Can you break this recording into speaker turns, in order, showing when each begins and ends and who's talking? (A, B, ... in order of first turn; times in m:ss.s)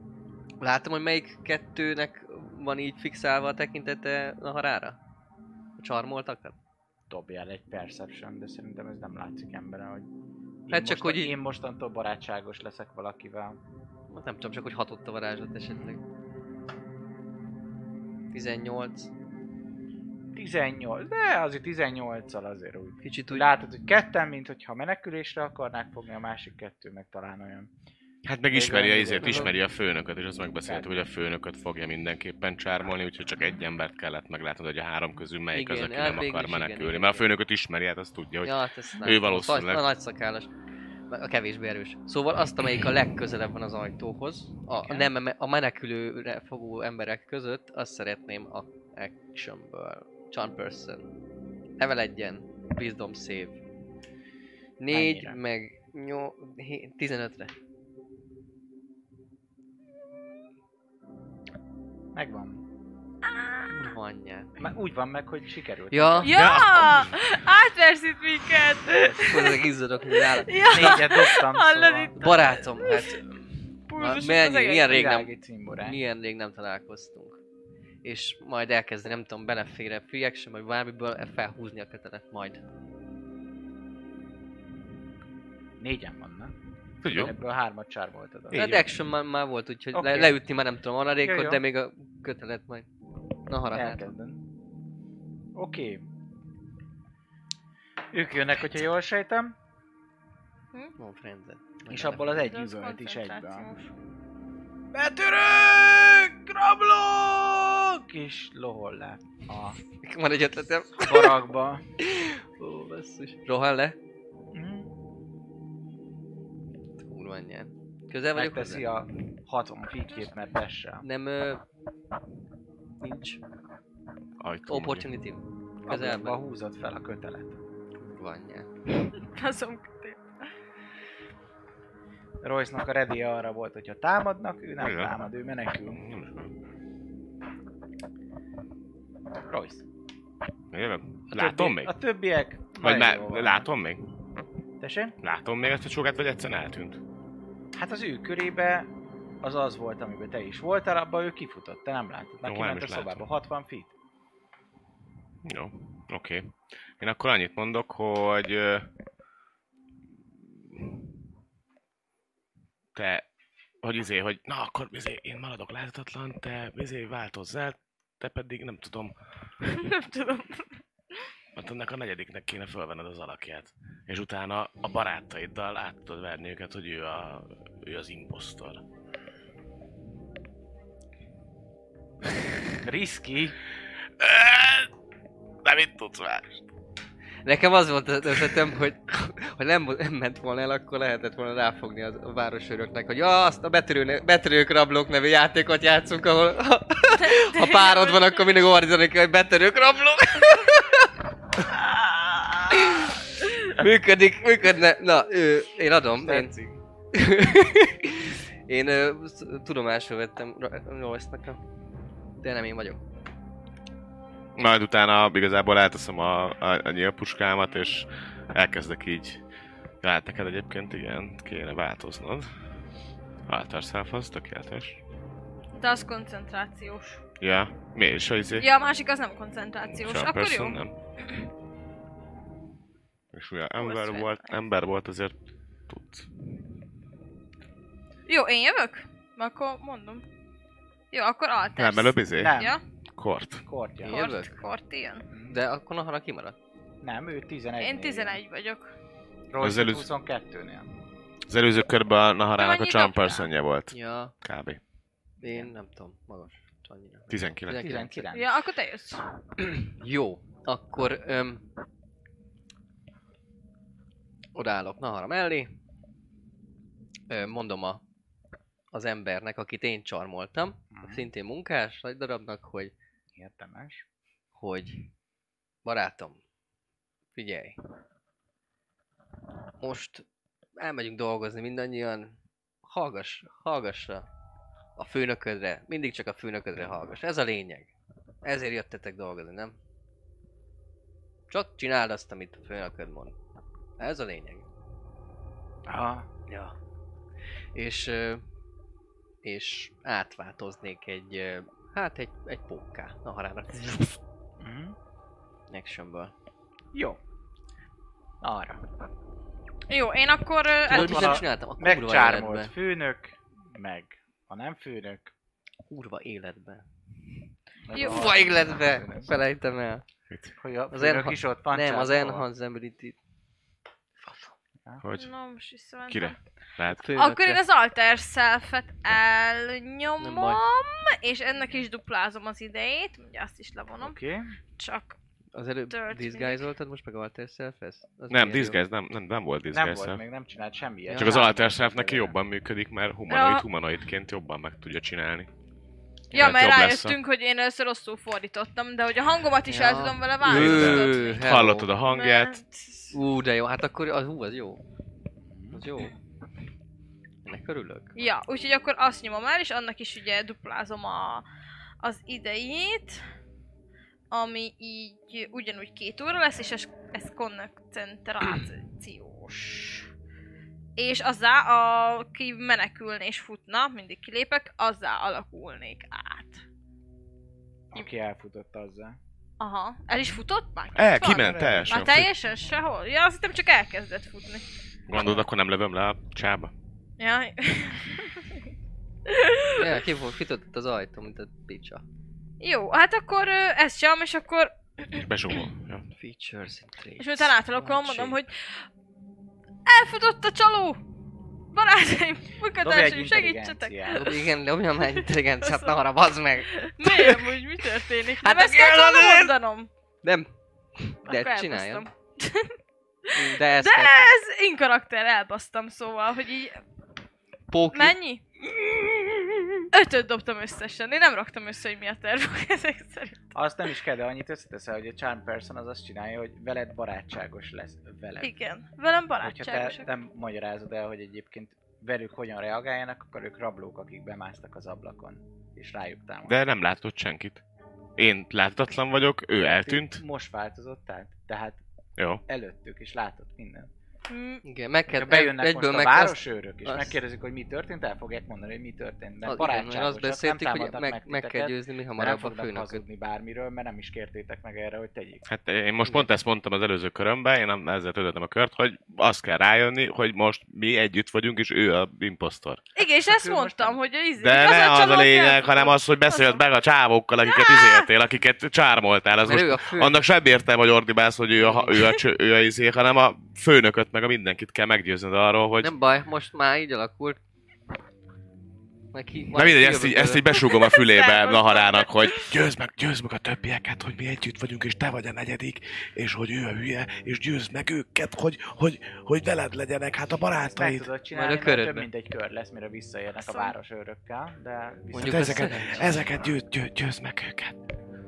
0:00.6-0:05.0 A
0:05.8-0:06.6 A
0:07.1-0:10.1 B
0:10.7-0:13.6 B
0:10.7-0:11.4 A
0:14.1-0:16.0 A
0:15.7-0:16.0 B
0:18.3-0:19.1 A
0:20.3-0:27.7 B
0:23.0-0:23.5 A
0:28.2-0:39.9 C
0:28.5-0:29.6 B
0:29.2-0:29.5 A
0:35.5-0:37.3 A
0:38.4-0:40.5 A
0:41.1-0:51.1 A
0:51.8-0:53.6 A
0:54.8-0:57.5 A
0:54.9-0:55.4 B
1:02.1-1:02.6 B
1:03.3-1:03.6 D
1:03.7-1:04.7 A
1:04.6-1:07.1 B
1:05.9-1:06.6 A
1:06.2-1:09.6 D
1:06.4-1:07.2 C
1:09.1-1:11.0 A
1:10.2-1:13.2 D
1:10.6-1:12.5 B
1:12.2-1:13.4 A
1:13.9-1:14.9 D
1:14.0-1:17.4 A
1:14.8-1:16.0 B
1:18.0-1:22.6 A
1:25.8-1:26.5 B
1:27.0-1:27.4 C
1:27.1-1:29.0 B
1:28.5-1:32.9 A
1:29.9-1:30.4 B
1:31.2-1:31.6 B
1:33.5-1:34.1 A
1:33.7-1:34.4 B
1:35.5-1:36.0 B
1:38.1-1:39.5 B
1:41.0-1:42.3 A
1:41.9-1:43.7 B
1:42.3-1:43.9 D
1:44.9-1:49.8 B
1:50.0-1:51.4 A
1:51.0-1:51.8 B
1:52.0-1:54.0 A
1:54.5-1:54.9 B
1:57.0-1:58.9 A
1:58.4-2:01.0 B
2:01.0-2:01.6 A
2:03.0-2:03.4 A
2:04.4-2:05.1 C
2:04.7-2:06.4 A
2:05.9-2:07.6 B
2:08.0-2:08.7 A
2:09.1-2:10.2 D
2:12.4-2:16.0 B
2:14.8-2:15.1 C
2:15.9-2:16.5 C
2:19.5-2:19.8 B
2:20.7-2:21.9 C
2:21.3-2:23.7 B
2:22.7-2:24.2 C
2:24.8-2:25.2 B
2:25.2-2:27.0 C
2:27.7-2:28.9 B
2:29.4-2:33.9 B
2:32.4-2:33.2 C
2:35.4-2:38.9 C
2:42.9-2:43.2 C
2:43.8-2:49.1 C
2:49.6-2:51.3 D
2:51.6-2:58.8 C
3:02.8-3:03.6 B
3:04.2-3:04.9 C
3:05.6-3:06.6 C
3:07.4-3:21.1 A
3:17.2-3:18.4 D
3:22.7-3:26.5 A
3:26.1-3:26.8 B
3:27.1-3:31.6 A
3:32.4-3:33.0 A
3:34.6-3:39.4 C
3:40.0-3:42.5 C
3:43.5-3:45.0 C
3:45.7-3:47.2 D
3:47.4-3:48.7 C
3:48.6-3:51.4 D
3:49.9-3:50.9 C
3:53.3-3:55.4 C
3:53.8-3:54.6 D
3:55.9-3:56.3 C
3:58.3-4:00.2 D
4:01.1-4:02.8 D
4:01.8-4:02.6 C
4:02.4-4:02.8 B
4:03.2-4:03.6 C
4:03.6-4:04.2 B
4:04.0-4:04.7 A
4:04.0-4:05.3 D
4:05.3-4:05.6 B
4:05.5-4:06.6 A
4:07.0-4:08.4 B
4:07.8-4:08.9 D
4:09.5-4:10.9 B
4:09.6-4:10.1 C
4:11.5-4:14.8 C
4:12.6-4:13.5 D
4:13.9-4:14.3 A
4:15.4-4:18.3 A
4:15.4-4:15.7 B
4:17.3-4:18.0 C
4:17.8-4:18.5 B
4:18.3-4:19.2 D
4:19.6-4:21.6 A
4:24.5-4:25.7 A
4:27.3-4:28.0 A
4:28.9-4:32.9 A
4:30.9-4:31.2 B
4:33.3-4:34.0 B
4:34.5-4:35.1 A
4:35.8-4:36.4 A
4:37.3-4:37.8 A
4:39.8-4:40.2 A
4:40.8-4:44.3 A
4:45.0-4:47.9 A
4:48.4-4:49.8 A
4:51.5-4:53.4 A
4:54.0-4:54.6 A
4:55.9-4:56.3 B
4:56.5-4:56.7 A
4:57.7-4:58.4 A
4:59.4-5:04.2 A
5:04.6-5:04.9 B
5:05.7-5:06.3 A
5:06.9-5:07.2 B
5:08.4-5:08.8 B
5:09.9-5:11.4 D
5:10.9-5:12.7 A
5:10.9-5:15.3 B
5:15.9-5:16.8 A
5:17.9-5:19.3 B
5:17.9-5:18.5 D
5:17.9-5:20.0 A
5:20.3-5:20.5 C
5:20.6-5:22.5 B
5:20.9-5:23.2 A
5:24.2-5:24.6 A
5:25.0-5:25.3 C
5:25.2-5:26.4 D
5:26.1-5:27.1 C
5:26.9-5:27.6 A
5:27.1-5:34.2 D
5:30.2-5:30.6 A
5:34.0-5:34.5 B
5:34.8-5:35.2 D
5:35.5-5:38.8 A
5:35.9-5:36.6 D
5:38.3-5:40.2 C
5:39.7-5:42.4 B
5:41.0-5:41.5 A
5:41.2-5:45.5 C
5:43.3-5:43.6 D
5:46.3-5:47.2 C
5:46.3-5:51.4 D
5:49.7-5:51.9 A
5:50.4-5:52.6 C
5:52.1-5:53.2 D
5:53.1-5:54.8 A
5:55.4-5:55.8 B
5:55.7-5:56.1 A
5:57.4-5:58.1 A
5:58.2-6:01.4 D
6:02.0-6:03.2 D
6:04.3-6:10.1 D
6:11.0-6:16.6 D
6:17.9-6:19.2 B
6:19.6-6:24.6 D
6:20.9-6:22.3 C
6:21.3-6:22.0 B
6:25.1-6:26.7 C
6:25.2-6:25.4 B
6:27.2-6:28.4 D
6:29.3-6:29.7 D
6:29.7-6:32.0 A
6:32.6-6:35.2 D
6:35.1-6:36.0 C
6:36.1-6:38.4 A
6:37.2-6:38.8 D
6:39.8-6:41.0 D
6:41.7-6:44.4 D
6:42.8-6:44.2 B
6:44.1-6:47.4 A
6:45.1-6:46.0 D
6:46.7-6:49.9 D
6:48.4-6:49.5 A
6:50.2-6:52.1 A
6:51.2-6:56.8 D
6:53.3-6:54.3 A
6:57.7-6:58.2 A
6:57.9-6:58.4 D
6:58.9-6:59.5 A
6:59.9-7:03.4 D
7:03.5-7:08.5 B
7:08.4-7:10.1 D
7:09.4-7:16.6 B
7:16.5-7:17.6 C
7:18.2-7:20.2 C
7:19.6-7:21.8 B
7:22.2-7:22.4 C
7:22.5-7:23.9 B
7:24.3-7:24.6 D
7:24.6-7:27.2 A
7:25.1-7:35.4 B
7:29.4-7:33.0 A
7:35.4-7:42.8 C
7:42.9-7:46.6 D
7:43.2-7:44.0 B
7:44.4-7:55.9 C
7:47.5-7:48.1 D
7:49.4-7:50.2 A
7:51.6-7:52.1 A
7:55.8-7:57.4 A
7:59.1-8:00.5 A
7:59.5-8:11.1 C
8:00.5-8:02.5 D
8:10.6-8:16.2 B
8:11.3-8:12.1 A
8:13.4-8:13.7 D
8:15.1-8:17.8 C
8:15.1-8:16.1 A